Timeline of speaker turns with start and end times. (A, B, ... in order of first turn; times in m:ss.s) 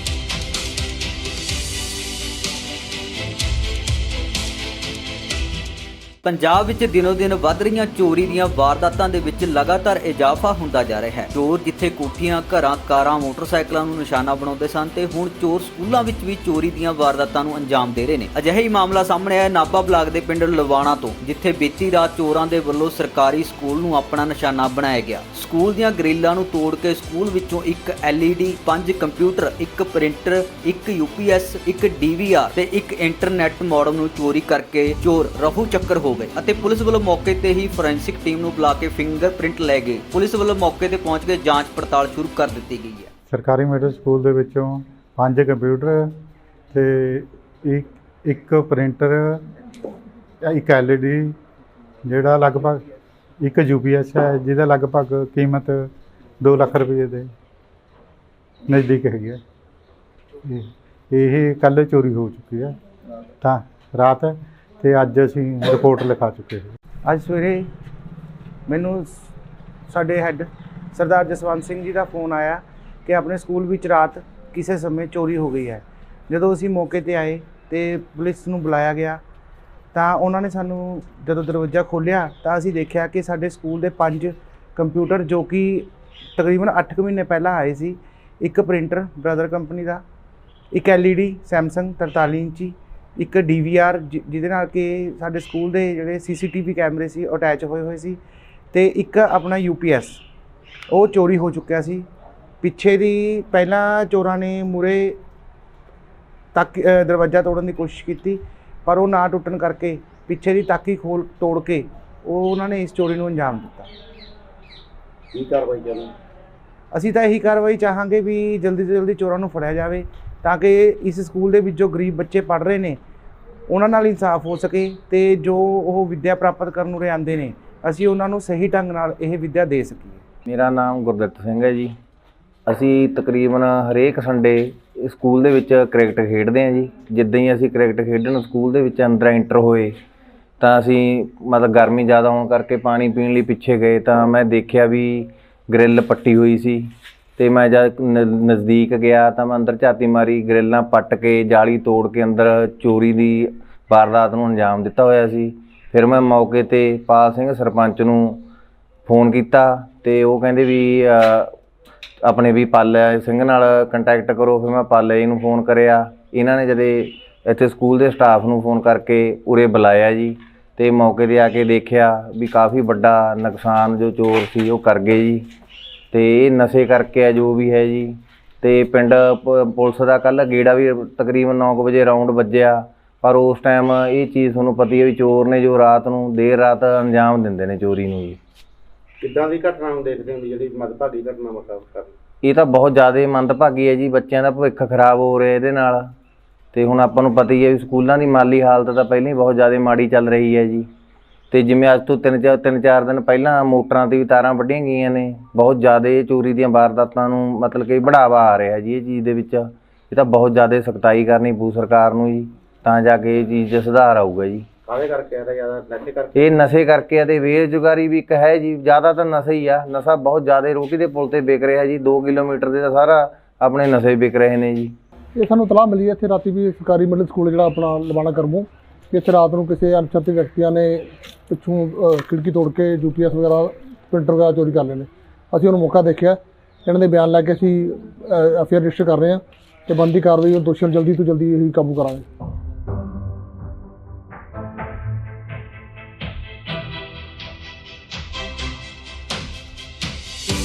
0:06.2-0:43.1 A
0:43.3-0:46.1 B
0:46.7-0:49.4 B
0:50.4-0:51.3 B
0:52.0-0:52.8 B
0:53.4-0:55.9 B
0:56.4-0:57.3 B
0:58.7-0:59.4 B
1:00.4-1:02.7 B
1:03.4-1:06.7 B
1:07.0-1:07.6 C
1:08.7-1:09.2 C
1:09.9-1:19.2 C
1:19.9-1:30.0 C
1:30.7-1:38.2 C
1:38.7-1:40.2 C
1:40.9-1:42.1 C
1:42.6-1:45.2 C
1:46.5-1:53.9 C
1:55.3-1:56.1 D
1:56.9-2:03.0 C
2:03.7-2:10.2 C
2:10.5-2:11.9 E
2:12.7-2:19.9 E
2:20.6-2:38.4 E
2:39.0-2:41.5 E
2:42.2-2:55.5 E
2:56.1-3:08.4 E
3:09.2-3:12.1 D
3:12.4-3:16.0 E
3:16.7-3:20.8 E
3:21.5-3:34.7 E
3:34.8-3:36.4 D
3:36.3-3:44.9 E
3:45.3-4:02.2 F